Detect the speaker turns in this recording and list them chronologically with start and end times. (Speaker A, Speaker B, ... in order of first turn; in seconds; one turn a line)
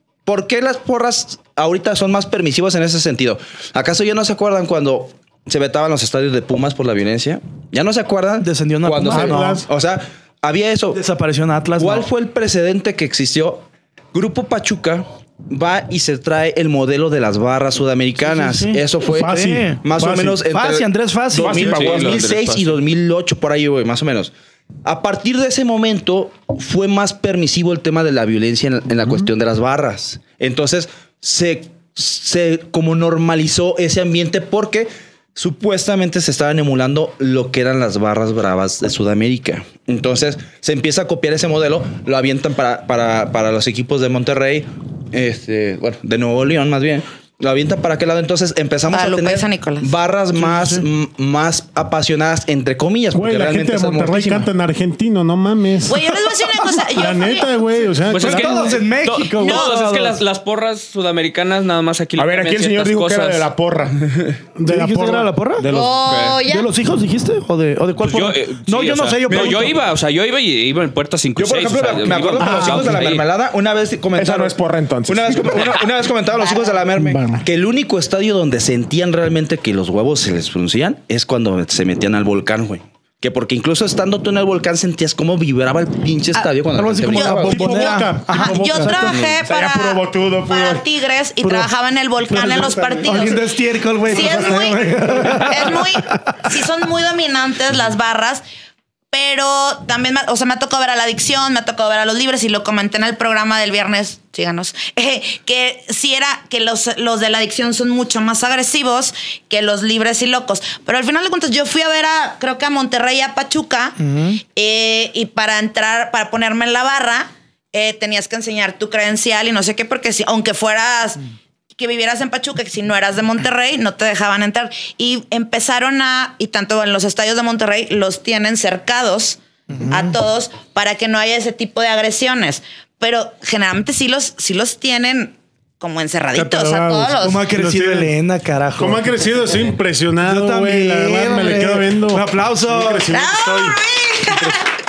Speaker A: 0.2-11.0
Speaker B: 8.4-9.6
Speaker C: 9.0-9.7
Speaker B: 10.9-12.1
Speaker A: 11.8-54.5
Speaker B: 18.2-19.8
Speaker C: 19.1-20.4
Speaker B: 20.4-21.7
Speaker D: 21.3-22.3
Speaker E: 21.6-22.7
Speaker F: 48.9-49.9
Speaker B: 50.3-50.9
Speaker C: 53.1-56.1
Speaker F: 55.8-57.9
Speaker C: 56.9-58.8
Speaker E: 58.0-63.5
Speaker B: 58.1-60.2
Speaker F: 59.4-59.7
Speaker D: 62.2-64.1
Speaker C: 64.6-65.3
Speaker B: 64.7-65.7
Speaker D: 65.6-66.0
Speaker F: 65.7-66.7
Speaker E: 66.0-66.4
Speaker B: 66.4-69.8
Speaker E: 68.0-73.2
Speaker A: 69.3-69.7
Speaker A: 71.3-74.5
Speaker C: 72.4-73.1
Speaker D: 74.1-75.7
Speaker A: 75.1-87.8
Speaker F: 76.3-76.7
Speaker C: 76.9-77.4
Speaker B: 86.7-89.1
Speaker F: 87.0-93.4
Speaker C: 87.4-89.3
Speaker D: 89.4-90.8
Speaker C: 92.3-93.0
Speaker B: 93.0-96.3
Speaker F: 94.0-98.4
Speaker F: 99.1-121.2
Speaker B: 114.0-114.4
Speaker F: 121.8-137.5
Speaker B: 129.7-130.1
Speaker C: 136.3-138.1
Speaker B: 137.2-139.1
Speaker C: 138.8-143.8
Speaker B: 140.2-143.1
Speaker F: 143.1-144.7